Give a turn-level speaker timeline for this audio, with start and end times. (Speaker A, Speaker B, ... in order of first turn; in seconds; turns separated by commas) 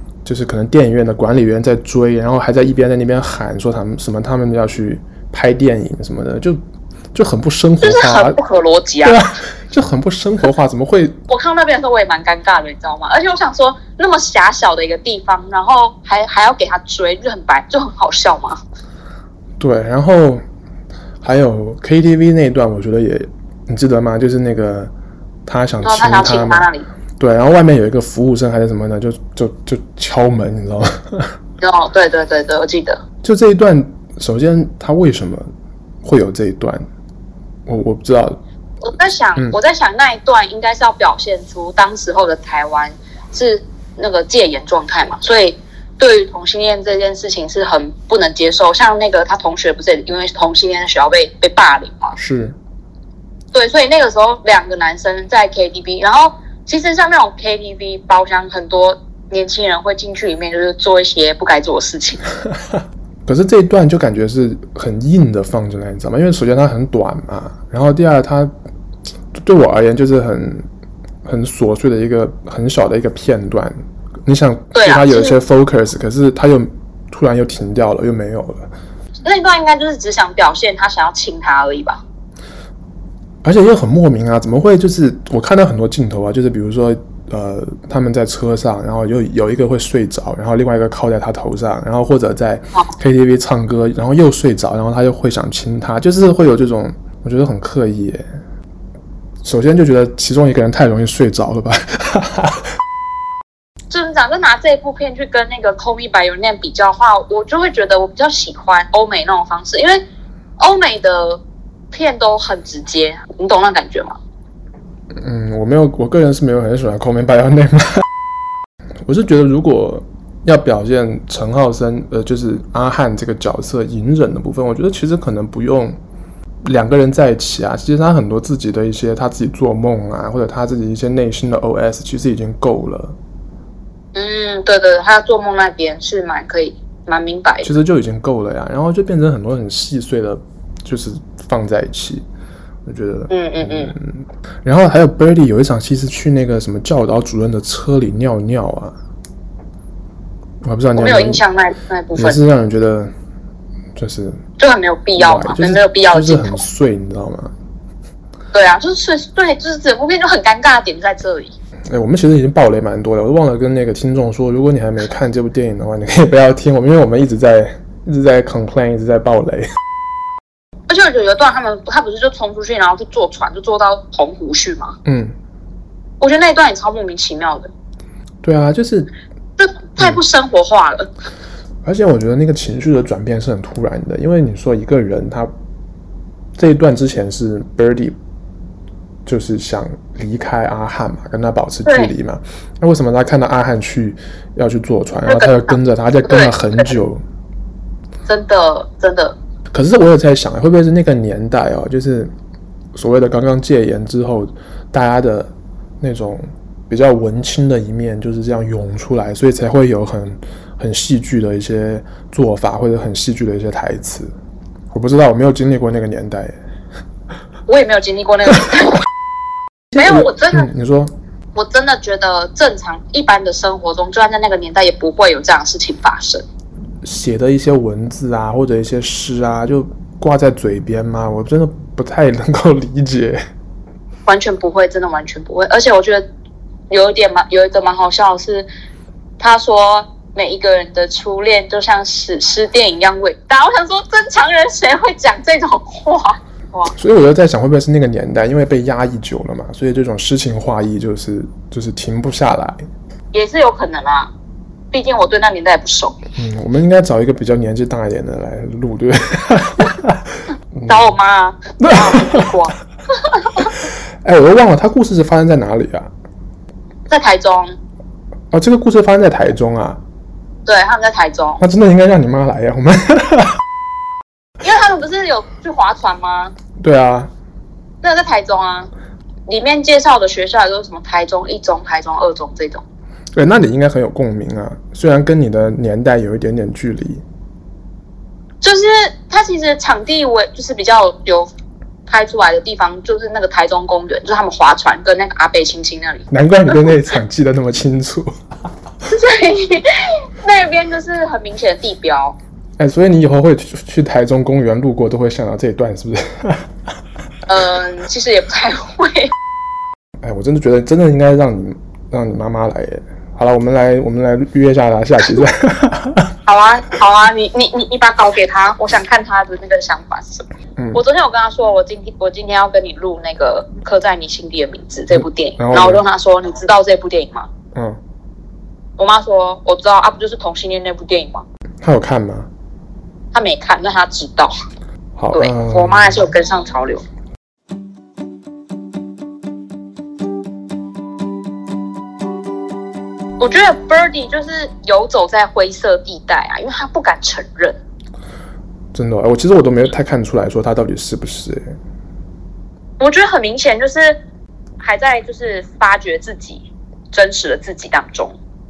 Speaker A: 0.2-6.6, Speaker A: 7.1-8.4, Speaker B: 7.8-9.2, Speaker A: 9.0-11.2, Speaker B: 11.3-18.6, Speaker A: 19.6-20.4, Speaker A: 21.2-24.9, Speaker A: 25.5-31.3, Speaker B: 25.8-26.9, Speaker B: 31.6-33.0, Speaker A: 33.2-35.5, Speaker A: 36.0-36.8, Speaker A: 37.7-38.4, Speaker B: 38.8-52.2, Speaker A: 52.1-52.6, Speaker B: 53.5-62.2, Speaker A: 63.2-68.5, Speaker A: 69.3-70.7, Speaker A: 71.2-78.7, Speaker B: 74.7-75.4, Speaker B: 79.2-82.0, Speaker A: 83.4-98.2, Speaker A: 99.4-102.7, Speaker B: 103.9-110.0, Speaker B: 110.6-111.4, Speaker B: 111.9-114.2, Speaker A: 115.2-118.0, Speaker A: 119.0-126.0, Speaker A: 126.6-133.1, Speaker B: 134.1-137.7, Speaker A: 137.6-142.2, Speaker A: 142.9-149.0, Speaker B: 143.3-143.9, Speaker A: 150.6-151.4, Speaker B: 151.0-152.4, Speaker A: 152.1-153.1, Speaker A: 154.0-154.4, Speaker B: 154.6-156.6, Speaker A: 155.2-157.5, Speaker B: 158.5-161.5, Speaker A: 161.9-169.7, Speaker B: 170.9-175.0, Speaker A: 175.1-175.3, Speaker B: 176.2-177.7, Speaker A: 178.4-179.1, Speaker B: 179.6-181.1, Speaker A: 181.8-185.5, Speaker A: 186.6-188.2, Speaker A: 189.2-197.2, Speaker B: 191.9-192.1, Speaker B: 195.3-197.0, Speaker B: 198.3-199.4, Speaker A: 199.7-202.3, Speaker A: 202.9-214.3, Speaker A: 214.9-216.6, Speaker B: 217.7-219.0, Speaker A: 219.9-221.1, Speaker B: 220.0-220.7, Speaker B: 221.6-226.4, Speaker A: 227.0-233.4, Speaker B: 234.3-236.2, Speaker B: 236.9-238.7, Speaker B: 239.4-246.9, Speaker A: 246.9-252.8, Speaker B: 253.3-254.3, Speaker B: 254.9-256.2, Speaker A: 256.4-261.1, Speaker B: 260.9-262.8, Speaker A: 261.8-262.5, Speaker A: 263.6-266.1, Speaker B: 267.1-267.8, Speaker A: 268.5-270.0, Speaker B: 270.6-271.6, Speaker A: 271.6-273.6, Speaker B: 274.6-276.5, Speaker A: 276.8-277.3, Speaker B: 278.0-278.9, Speaker B: 279.5-282.8, Speaker A: 283.4-287.2, Speaker B: 288.6-291.5, Speaker B: 292.1-296.8, Speaker A: 296.3-298.3, Speaker B: 299.1-302.4, Speaker A: 302.8-306.7, Speaker B: 307.5-309.3, Speaker A: 310.2-316.3, Speaker B: 316.5-327.5, Speaker A: 325.1-326.0, Speaker A: 327.7-328.0, Speaker B: 329.0-331.4, Speaker A: 331.8-332.5, Speaker B: 333.3-334.6, Speaker A: 335.2-336.3, Speaker B: 335.3-337.1, Speaker B: 343.4-347.8, Speaker A: 348.9-351.8, Speaker B: 353.0-354.2, Speaker B: 354.8-358.4